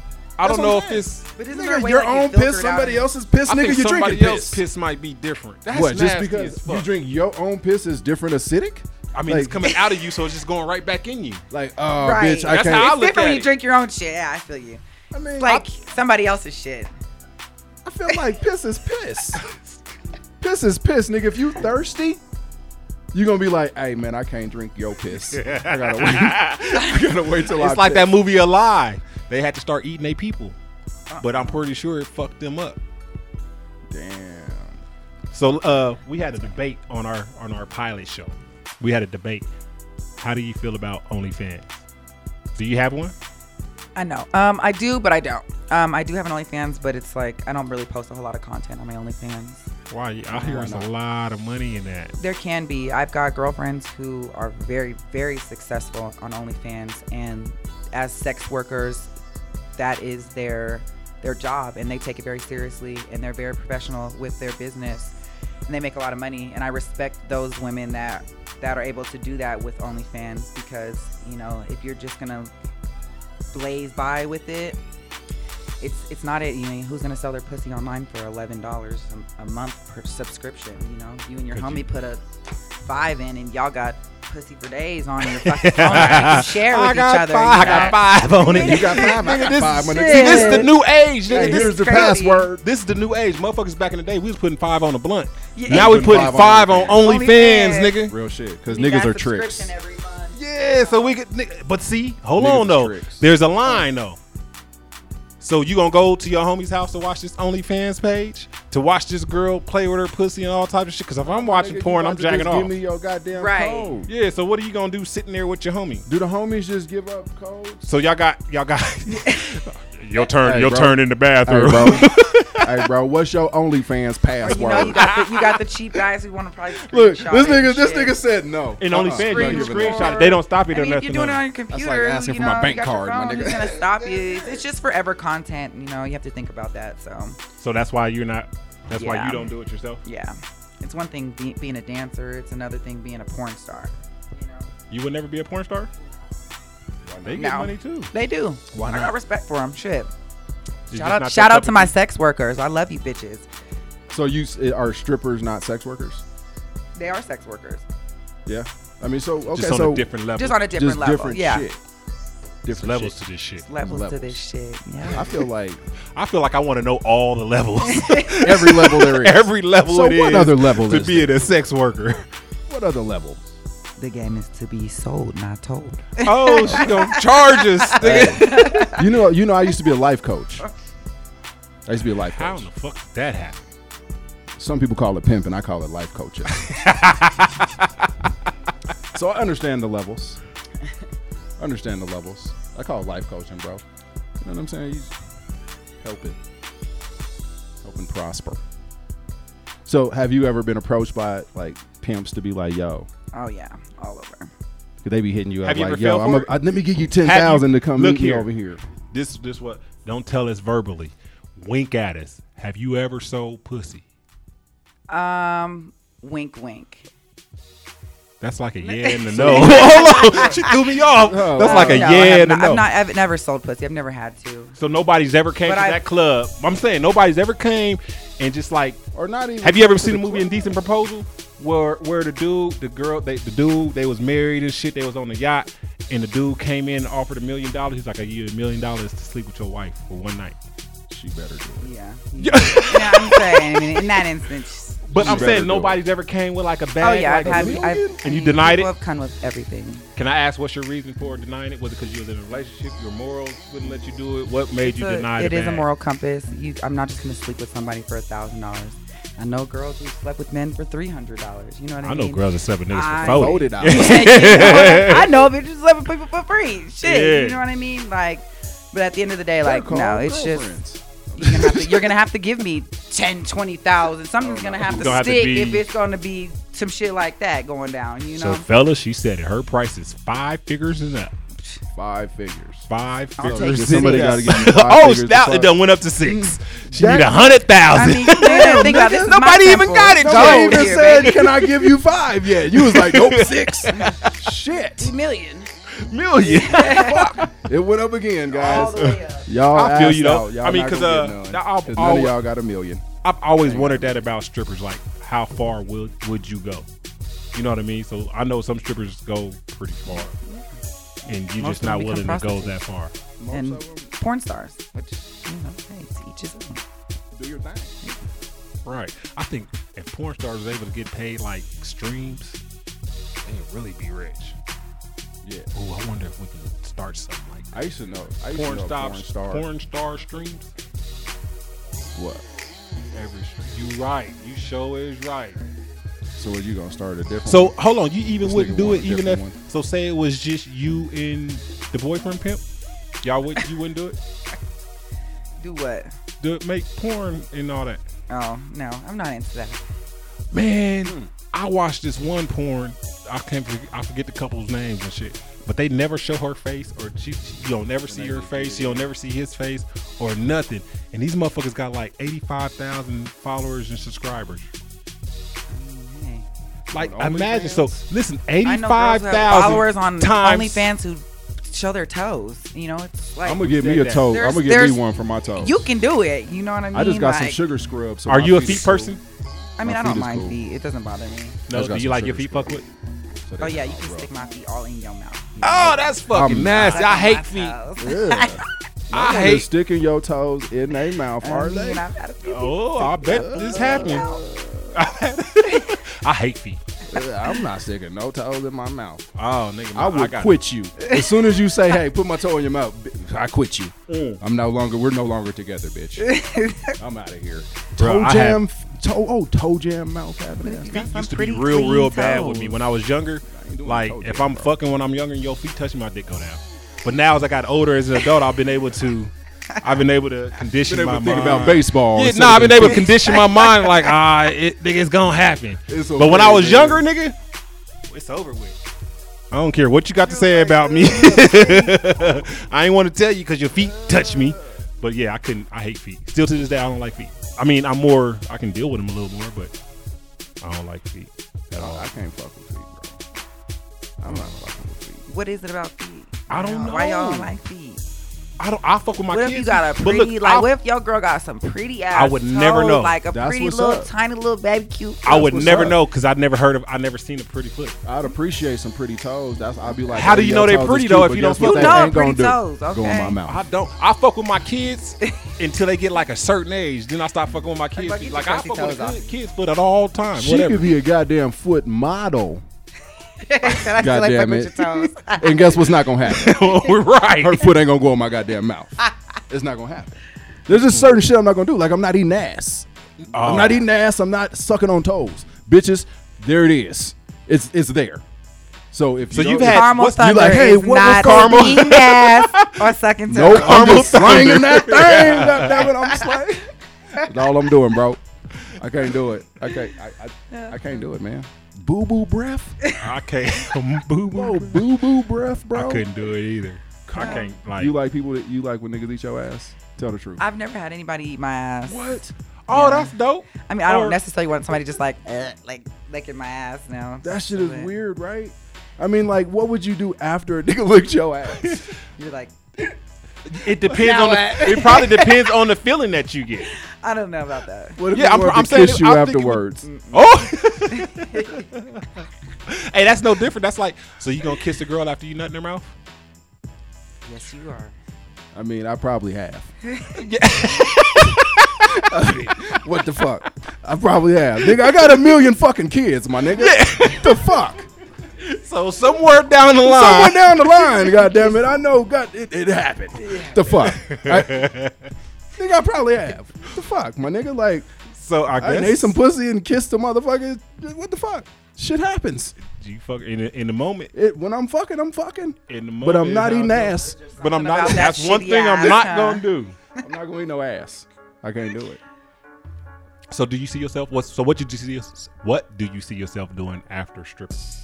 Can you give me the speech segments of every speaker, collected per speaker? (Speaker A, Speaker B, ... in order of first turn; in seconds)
Speaker A: 0.4-1.3, 3.5-6.9, 9.1-11.4, 12.5-13.5, 19.4-19.6, 25.2-30.6, 31.2-32.8, 35.3-39.5, 40.2-41.8, 42.5-43.1, 49.9-52.1, 81.5-81.8, 85.3-98.2, 100.3-104.2, 105.4-112.7, 114.1-116.1, 117.8-122.8, 124.5-125.6, 128.8-131.4, 137.6-140.0, 144.9-145.9, 147.2-148.1, 148.8-149.1, 150.9-151.9, 159.5-160.7, 162.7-163.7, 166.2-172.3, 176.2-178.9, 182.3-183.6, 186.5-187.7, 205.6-206.6, 207.2-208.5, 209.1-214.0, 218.4-222.9, 224.8-229.0, 229.6-240.6, 242.4-244.2, 245.1-248.9, 250.2-255.9, 262.0-265.5, 267.0-267.6, 274.8-275.9, 278.4-281.3, 282.9-291.9, 292.7-294.4, 295.9-297.5, 298.7-302.4, 303.2-306.9, 307.5-310.4, 311.3-313.1, 318.9-322.6, 323.4-324.6, 325.8-327.9, 328.5-330.7, 333.1-335.6, 337.5-342.6, 343.2-344.2, 346.4-348.0, 350.5-364.7, 366.9-370.9, 373.5-374.3, 378.3-379.2, 381.7-382.8, 385.6-387.8, 389.1-389.7, 392.4-394.3, 394.9-396.8, 399.4-400.6, 404.1-404.4, 408.0-408.6, 410.8-427.4, 428.1-428.8, 429.5-439.7, 440.6-442.1, 444.3-444.6, 446.5-447.5, 448.6-450.7, 452.1-453.2, 455.2-458.0, 460.1-462.2, 463.5-470.9, 474.8-475.1, 476.2-477.7, 480.7-481.1, 483.3-483.9, 489.3-492.8, 493.5-495.9, 503.0-504.9, 505.8-507.9, 512.7-514.2, 521.6-521.9, 523.5-526.7, 528.1-535.9, 540.2-542.8, 544.7-545.3, 546.5-547.5, 548.4-550.9, 553.8-555.1, 558.1-559.1, 562.6-564.1, 565.7-569.8, 573.3-577.7
Speaker B: 0.4-4.6, 5.7-9.7, 11.5-13.0, 15.1-15.7, 17.9-19.4, 20.4-22.2, 23.1-28.1, 33.9-34.8, 50.4-50.9, 87.6-90.7, 91.3-92.6, 95.7-97.1, 98.0-99.7, 102.4-103.3, 111.2-114.1, 116.1-117.8, 120.4-125.1, 126.8-130.4, 131.7-134.0, 147.1-147.5, 154.1-156.2, 158.5-160.1, 160.7-161.8, 162.6-163.2, 163.8-164.4, 165.1-165.8, 168.4-171.4, 172.7-173.5, 176.7-177.0, 178.0-180.7, 181.9-182.7, 184.6-186.7, 189.1-190.4, 191.6-193.8, 194.4-195.1, 196.0-196.4, 197.8-198.6, 199.9-203.1, 205.0-208.8, 219.3-220.6, 221.2-222.2, 229.1-230.8, 241.1-241.9, 245.2-246.0, 247.4-248.2, 263.2-265.1, 269.6-271.8, 274.4-275.3, 281.9-282.9, 283.4-285.8, 286.7-289.4, 290.2-295.1, 296.8-303.1, 303.6-304.2, 313.4-314.1, 317.3-317.9, 325.4-325.7, 327.7-329.7, 332.1-332.4, 336.4-337.8, 338.4-339.6, 351.1-351.3, 358.1-359.1, 366.9-367.9, 373.4-375.9, 376.9-379.1, 379.8-380.6, 381.7-382.9, 383.5-384.3, 386.3-387.1, 388.0-392.1, 393.2-395.0, 397.1-399.3, 399.9-406.3, 407.0-411.0, 412.5-412.8, 413.5-414.8, 420.8-423.3, 425.9-427.1, 430.3-431.9, 433.9-434.6, 441.8-443.2, 444.2-445.3, 453.3-454.1, 455.3-456.0, 458.1-463.6, 470.4-472.6, 473.9-488.2, 488.9-491.8, 493.3-496.7, 497.2-498.2, 498.8-502.8, 504.3-506.1, 507.1-510.4, 511.9-512.3, 517.2-521.8, 528.0-529.9, 538.5-539.7, 541.9-547.9, 549.8-554.7, 555.6-557.9, 558.6-562.5, 564.1-567.2, 570.0-572.0
Speaker C: 1.4-3.1, 12.0-14.8, 15.4-16.9, 31.1-31.6, 44.0-49.7, 52.2-59.1, 59.8-65.1, 65.7-72.5, 73.5-74.8, 75.8-82.2, 82.8-90.7, 91.3-92.5, 95.5-96.3, 97.0-98.0, 98.7-101.2, 113.3-114.0, 119.1-119.6, 124.4-128.2, 129.0-137.4, 138.9-139.5, 140.1-144.7, 147.3-150.1, 150.9-153.5, 157.0-157.9, 160.4-161.7, 163.7-165.3, 167.9-168.4, 174.0-179.1, 203.3-204.5, 215.1-217.1, 218.8-220.8, 221.6-224.8, 225.6-226.0, 241.8-245.5, 247.0-250.1, 254.8-270.7, 271.4-278.7, 283.4-284.6, 287.9-291.5, 293.9-294.3, 295.0-295.7, 296.4-297.4, 298.5-299.5, 310.1-310.7, 311.6-312.8, 313.5-316.8, 345.6-346.1, 348.3-349.8, 365.7-366.5, 368.6-373.6, 374.3-375.0, 375.6-377.6, 379.8-381.6, 383.6-386.1, 386.7-388.6, 391.4-394.4, 395.7-395.9, 401.0-401.3, 406.2-407.0, 410.6-412.7, 423.1-424.1, 431.3-431.9, 445.3-448.0, 449.3-455.6, 461.6-463.4, 467.9-469.3, 473.4-475.9, 489.6-494.1, 500.5-501.0, 502.8-503.1, 507.2-507.5, 510.4-512.2, 512.7-517.9, 522.2-522.9, 523.9-525.6, 526.7-528.0, 529.8-530.4, 530.9-531.7, 537.2-538.0, 539.9-540.3, 553.2-553.6, 567.2-569.5